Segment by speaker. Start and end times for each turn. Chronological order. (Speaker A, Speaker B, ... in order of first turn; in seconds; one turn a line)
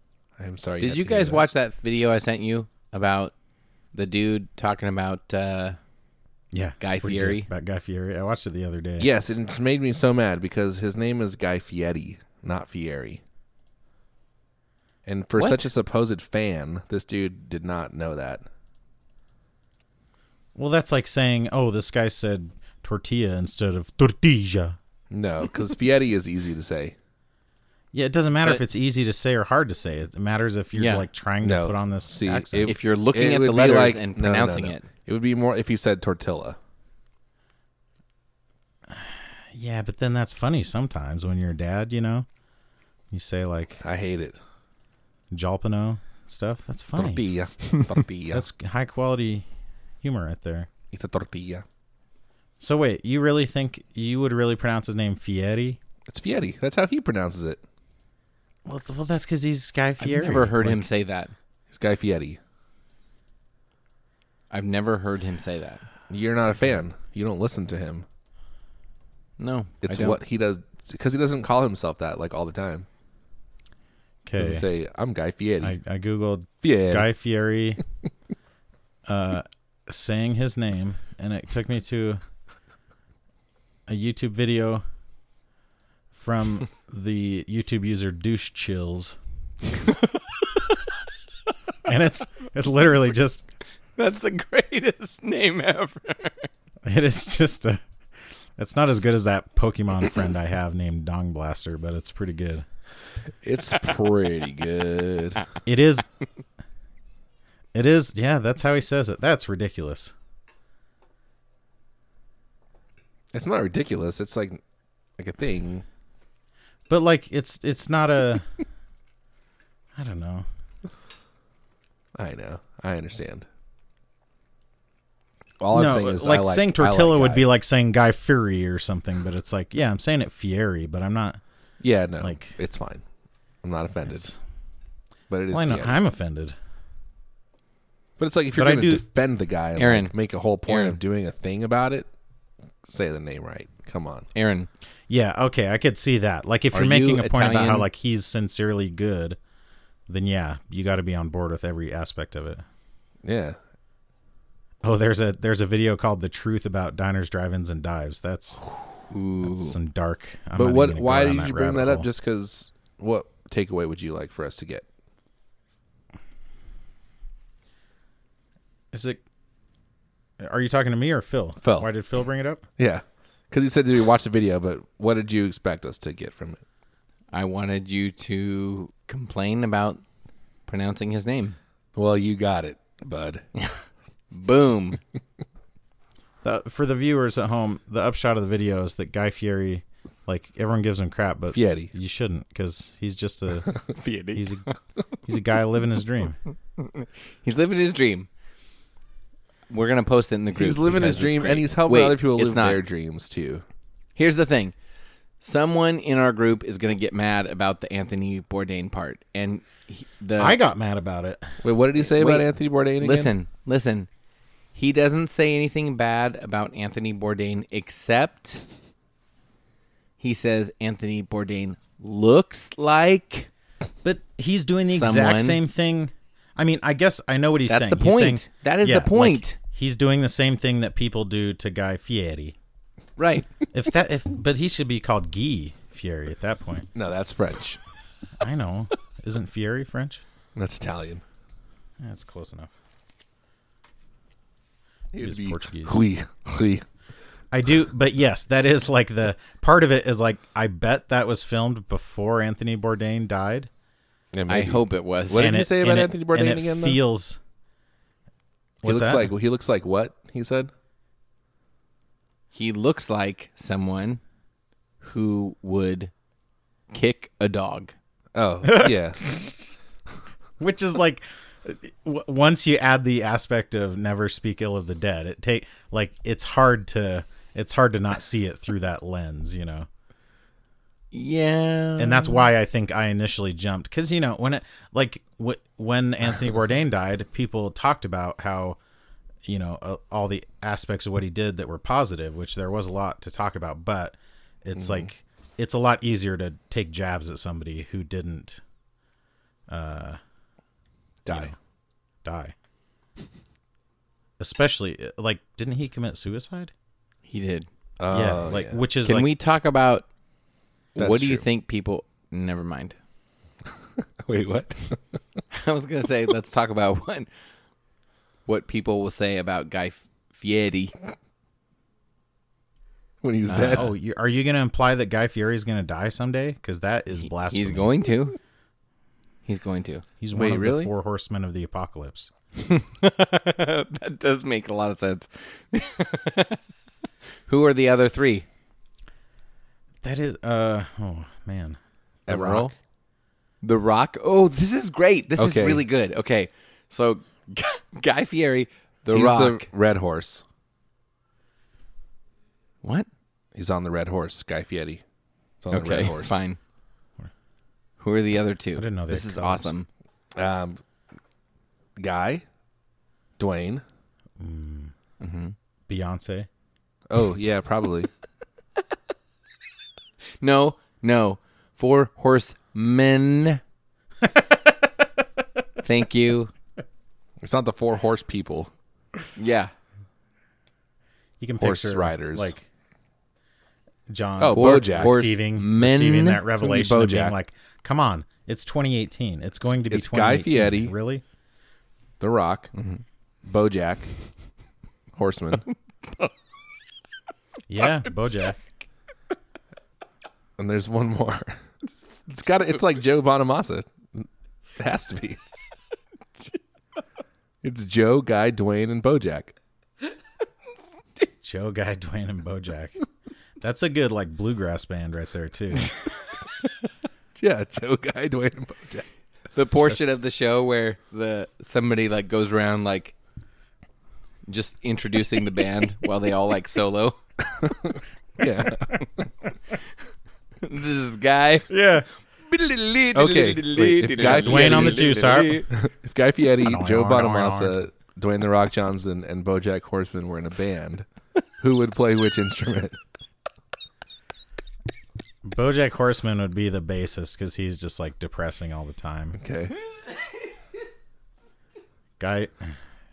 Speaker A: 0.4-1.4
Speaker B: 0.8-3.3
Speaker B: 3.9-5.8
Speaker C: 6.5-9.1
Speaker B: 6.8-7.5
Speaker A: 9.0-13.2
Speaker A: 15.1-18.4
Speaker C: 20.6-24.8
Speaker A: 25.1-26.9
Speaker C: 27.9-32.8
Speaker B: 30.7-31.1
Speaker A: 31.4-36.6
Speaker B: 32.5-34.9
Speaker C: 38.9-42.3
Speaker C: 43.1-43.8
Speaker A: 43.8-44.4
Speaker C: 45.3-47.2
Speaker A: 46.9-48.4
Speaker C: 48.3-49.5
Speaker C: 50.0-50.7
Speaker A: 50.9-51.6
Speaker C: 52.6-55.8
Speaker A: 56.1-57.6
Speaker C: 58.6-60.9
Speaker B: 60.0-61.3
Speaker A: 61.7-62.4
Speaker B: 64.5-65.8
Speaker A: 66.1-68.0
Speaker B: 69.4-70.2
Speaker A: 69.8-72.9
Speaker C: 74.2-74.7
Speaker A: 74.4-75.8
Speaker C: 75.6-77.8
Speaker A: 76.6-77.1
Speaker C: 79.0-82.2
Speaker C: 83.9-84.8
Speaker C: 86.1-89.2
Speaker C: 91.8-93.5
Speaker B: 94.0-96.5
Speaker C: 96.8-97.8
Speaker C: 98.6-102.7
Speaker A: 103.4-105.5
Speaker C: 105.6-106.0
Speaker C: 107.7-110.1
Speaker A: 113.3-114.6
Speaker A: 115.2-115.8
Speaker C: 116.9-118.5
Speaker C: 119.9-120.5
Speaker A: 122.2-123.5
Speaker A: 125.6-127.5
Speaker C: 125.7-131.4
Speaker A: 131.8-133.0
Speaker C: 132.2-132.6
Speaker A: 133.6-134.3
Speaker C: 134.1-134.4
Speaker A: 135.3-135.9
Speaker C: 135.5-136.5
Speaker A: 138.2-142.1
Speaker C: 138.5-139.0
Speaker B: 139.8-140.1
Speaker B: 140.7-141.0
Speaker A: 142.8-144.3
Speaker B: 144.3-144.7
Speaker C: 145.1-149.4
Speaker B: 146.7-147.9
Speaker C: 150.1-152.6
Speaker A: 153.2-153.6
Speaker C: 154.8-158.6
Speaker B: 159.1-159.8
Speaker C: 159.4-162.1
Speaker A: 160.5-164.9
Speaker C: 168.9-169.2
Speaker C: 170.4-172.6
Speaker A: 171.6-171.9
Speaker A: 172.8-176.6
Speaker B: 177.3-180.0
Speaker B: 180.7-181.6
Speaker A: 181.9-183.5
Speaker B: 184.3-185.0
Speaker C: 186.4-193.8
Speaker A: 191.5-191.9
Speaker B: 193.9-194.8
Speaker C: 194.3-194.6
Speaker C: 195.2-196.4
Speaker B: 196.8-198.3
Speaker B: 199.7-202.8
Speaker A: 200.5-203.6
Speaker B: 204.2-204.7
Speaker B: 205.4-210.6
Speaker C: 210.4-211.6
Speaker A: 211.6-213.3
Speaker B: 212.1-212.5
Speaker B: 213.0-214.1
Speaker B: 214.7-218.6
Speaker B: 220.2-223.5
Speaker C: 224.0-232.6
Speaker B: 224.9-225.6
Speaker B: 227.7-229.6
Speaker B: 233.2-233.5
Speaker C: 233.7-236.9
Speaker A: 236.9-237.8
Speaker C: 238.4-240.2
Speaker A: 240.6-241.2
Speaker C: 242.0-242.7
Speaker A: 245.1-246.8
Speaker C: 245.2-246.0
Speaker C: 247.5-253.7
Speaker A: 254.3-257.0
Speaker B: 254.5-255.6
Speaker C: 255.3-257.4
Speaker C: 258.8-259.3
Speaker A: 258.8-260.7
Speaker B: 262.5-264.2
Speaker B: 265.0-266.1
Speaker B: 266.9-267.9
Speaker A: 268.3-269.2
Speaker C: 268.6-269.5
Speaker C: 270.6-279.9
Speaker B: 281.1-282.5
Speaker C: 282.0-288.8
Speaker C: 289.4-298.6
Speaker A: 294.8-295.1
Speaker C: 299.7-300.2
Speaker A: 301.2-301.5
Speaker C: 301.3-301.5
Speaker C: 302.2-302.5
Speaker C: 304.4-306.7
Speaker B: 307.3-307.7
Speaker A: 308.0-308.8
Speaker C: 308.1-309.3
Speaker B: 309.0-310.1
Speaker A: 310.9-311.4
Speaker B: 311.0-312.9
Speaker A: 314.2-315.2
Speaker B: 315.5-317.3
Speaker B: 318.5-320.9
Speaker A: 323.2-323.9
Speaker B: 323.5-323.9
Speaker C: 323.7-328.0
Speaker B: 327.4-328.4
Speaker B: 329.4-330.0
Speaker C: 330.2-332.3
Speaker A: 330.3-330.9
Speaker B: 332.6-336.6
Speaker B: 337.5-338.4
Speaker C: 340.0-342.7
Speaker A: 342.3-342.7
Speaker B: 343.6-349.6
Speaker A: 345.4-345.8
Speaker A: 349.1-350.4
Speaker A: 353.5-355.0
Speaker A: 355.6-356.4
Speaker B: 355.7-356.6
Speaker B: 358.0-359.9
Speaker C: 358.7-359.7
Speaker A: 360.4-360.8
Speaker A: 362.0-362.4
Speaker A: 363.4-363.8
Speaker C: 364.4-364.9
Speaker B: 365.2-365.5
Speaker C: 365.9-366.5
Speaker A: 367.1-368.1
Speaker B: 370.4-373.6
Speaker B: 375.8-376.5
Speaker A: 377.4-378.7
Speaker B: 379.4-379.7
Speaker C: 381.4-382.6
Speaker A: 381.6-382.5
Speaker C: 384.1-391.2
Speaker A: 384.4-385.2
Speaker B: 384.5-386.4
Speaker A: 386.6-387.3
Speaker A: 389.6-390.9
Speaker A: 392.2-392.7
Speaker B: 392.8-393.0
Speaker A: 393.4-394.1
Speaker A: 395.1-395.7
Speaker C: 397.7-398.6
Speaker A: 400.6-401.6
Speaker A: 402.3-404.3
Speaker A: 404.8-405.4
Speaker A: 407.6-409.5
Speaker C: 411.4-412.9
Speaker C: 413.6-415.9
Speaker A: 417.4-419.1
Speaker B: 419.5-423.1
Speaker B: 424.5-427.2
Speaker A: 427.4-429.0
Speaker B: 430.6-431.7
Speaker C: 431.7-432.1
Speaker B: 432.5-435.7
Speaker A: 433.1-435.1
Speaker C: 434.2-435.6
Speaker A: 435.7-441.1
Speaker C: 436.6-437.8
Speaker A: 441.6-443.0
Speaker C: 445.4-449.4
Speaker A: 449.4-449.8
Speaker C: 452.2-452.8